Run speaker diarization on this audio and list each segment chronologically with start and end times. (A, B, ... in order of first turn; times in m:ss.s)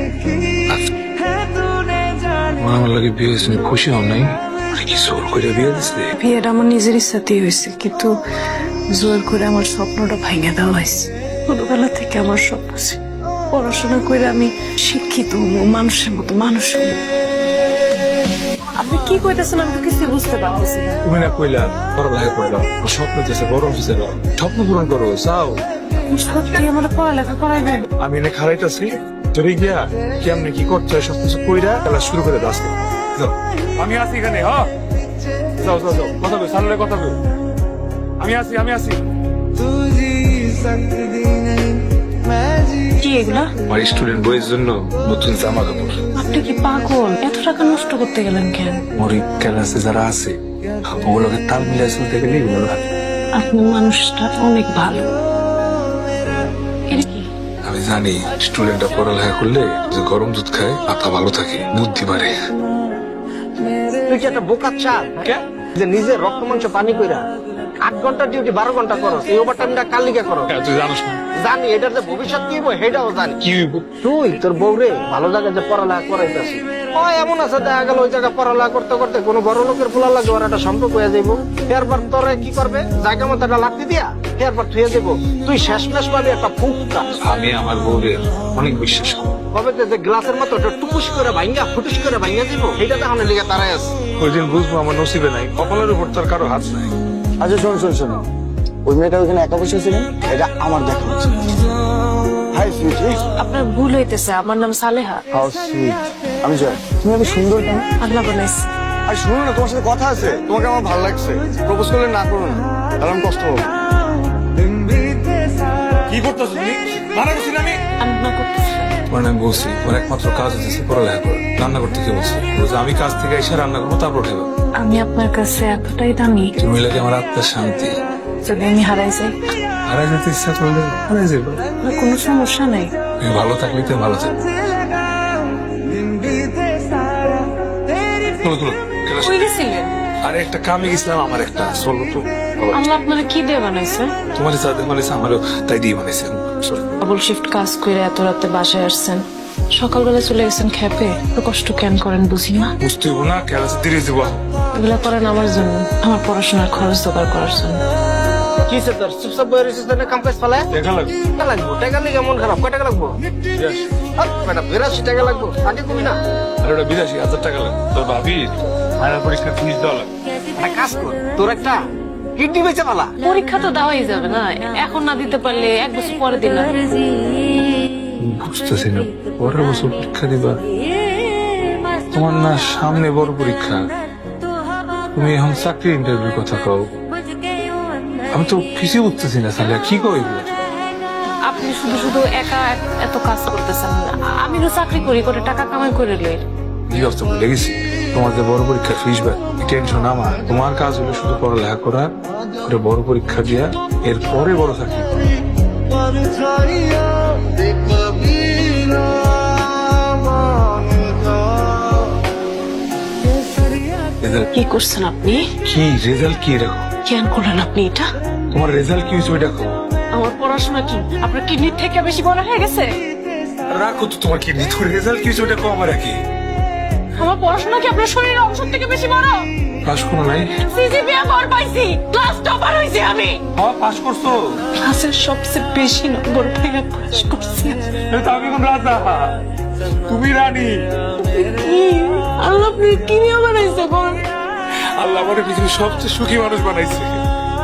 0:02.6-0:06.1 A
0:06.1-0:08.1 B
0:08.9-0:13.0 B
0:13.5-0:17.0 B
0:18.8-0:21.0 B
0:21.0-0:25.6 A
0:26.1-0:27.8 B
0:28.0-0:34.7 A
0:35.6-0:37.2 A
0:38.2-0:39.0 A
0:43.0-0:43.5 B
0:43.7-0:46.0 A
0:46.2-0:48.8 B
0:48.9-0:50.4 A
0:51.0-0:52.8 A
0:53.3-0:55.1 B
0:56.9-0:57.3 B
0:57.6-1:02.4 A
1:04.1-1:05.2 C
1:05.8-1:07.2 C
1:07.8-1:10.5 C
1:10.5-1:11.2 A
1:11.4-1:13.4 C
1:13.4-1:13.9 A
1:14.0-1:27.0 C
1:27.2-1:29.4 A
1:29.5-1:33.9 C
1:34.2-1:37.0 A
1:37.4-1:38.2 D
1:38.9-1:41.7 D
1:42.5-1:43.2 D
1:43.4-1:45.2 B
1:45.3-1:47.9 D
1:48.0-1:48.7 B
1:49.1-1:53.6 D
1:56.1-1:57.8 A
1:58.0-1:58.9 B
1:59.1-2:04.5 A
2:04.8-2:06.5 B
2:06.6-2:08.0 A
2:08.4-2:09.4 B
2:09.9-2:11.6 A
2:11.8-2:12.9 B
2:13.2-2:14.4 A
2:18.4-2:19.5 A
2:19.2-2:19.9 B
2:20.2-2:22.8 A
2:22.7-2:24.1 B
2:24.4-2:26.8 A
2:27.0-2:29.2 B
2:29.7-2:32.7 B
2:32.8-2:34.4 A
2:34.8-2:37.8 B
2:38.7-2:40.7 C
2:40.7-2:41.3 A
2:41.3-2:43.1 C
2:43.6-2:43.8 A
2:44.2-2:46.2 C
2:46.6-2:50.1 A
2:50.6-2:51.8 C
2:52.4-2:53.1 C
2:53.2-2:56.8 B
2:58.2-3:00.6 A
3:02.1-3:03.8 A
3:05.1-3:06.9 A
3:08.3-3:10.5 A
3:11.5-3:16.4 B
3:16.9-3:25.2 A
3:34.2-3:34.5 A
3:34.5-3:35.5 B
3:35.6-3:36.9 A
3:37.0-3:38.1 B
3:38.5-3:39.8 A
3:40.1-3:42.9 B
3:43.7-3:46.2 A
3:47.2-3:49.4 B
3:49.8-3:50.5 A
3:50.6-3:53.4 B
3:53.6-3:54.3 A
3:54.8-3:57.8 B
3:58.1-3:59.4 A
4:00.1-4:00.8 A
4:01.2-4:04.2 B
4:05.0-4:07.2 A